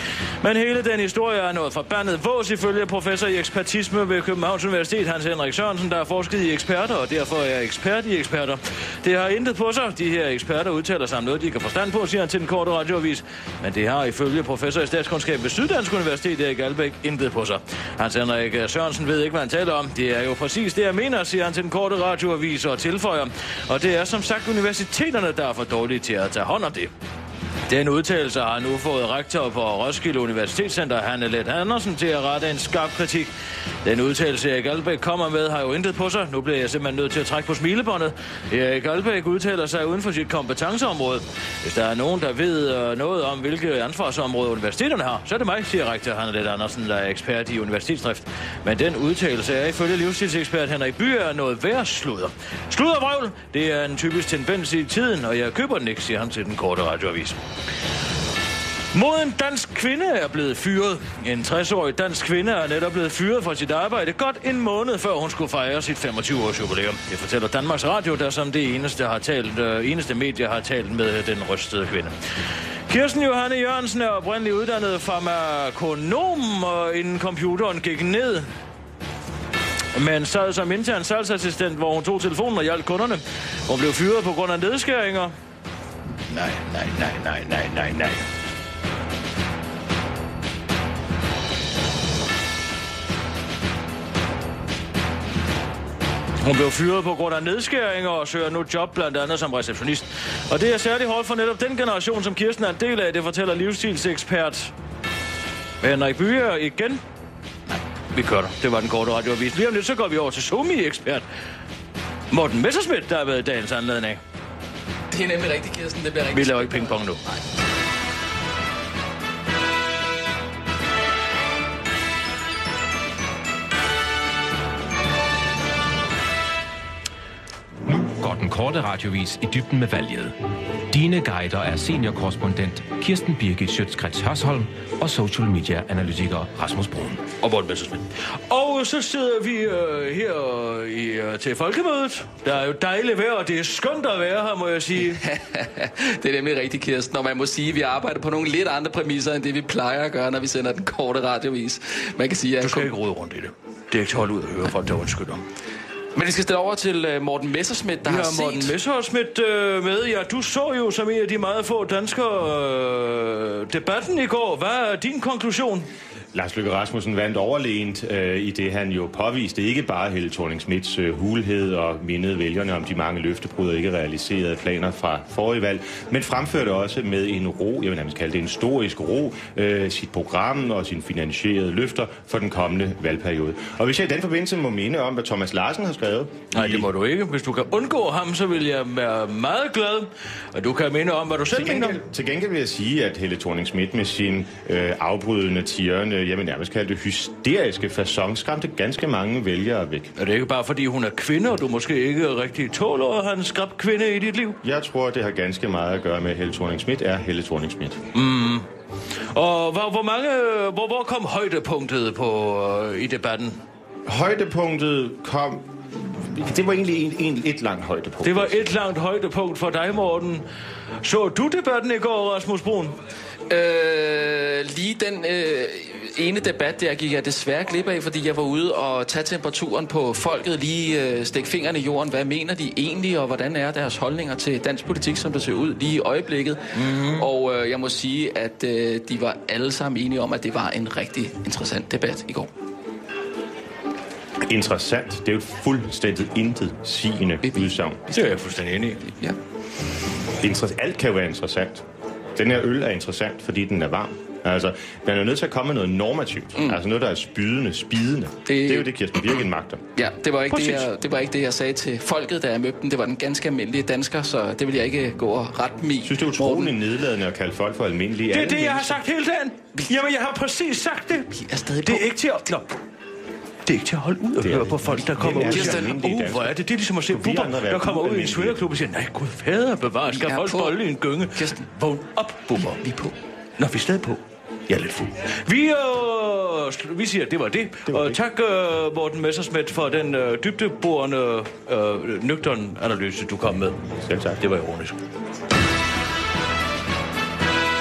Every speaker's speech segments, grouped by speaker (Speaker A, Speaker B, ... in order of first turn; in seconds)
Speaker A: 0.4-26.9, 27.7-33.3, 33.8-57.4, 58.9-72.2, 72.9-78.5, 79.9-85.3, 86.3-88.3, 96.4-104.7, 105.8-107.0, 107.7-111.2, 112.3-114.2, 116.3-117.2, 137.4-145.2, 152.6-155.5, 158.0-165.9, 186.5-192.0, 200.2-204.6, 208.1-208.7, 209.3-213.6, 218.2-220.5, 221.0-223.0, 236.8-237.3, 248.1-249.0, 268.3-272.7, 273.6-282.8, 283.6-293.8, 294.4-295.0
Speaker B: 115.1-117.4, 145.1-152.9, 156.2-158.8, 223.5-242.5, 249.0-249.4, 258.5-258.9, 259.9-266.7, 271.3-272.2, 275.3-275.9, 280.1-281.7, 282.8-283.1
Speaker C: 127.8-130.4, 130.9-137.2
Speaker D: 166.3-186.9, 191.5-200.1, 204.6-208.0, 214.1-218.7, 244.4-248.0, 250.4-251.8, 252.4-259.9, 260.5-260.8, 266.0-269.0, 274.4-276.6, 277.1-278.6, 287.9-288.2, 293.9-294.4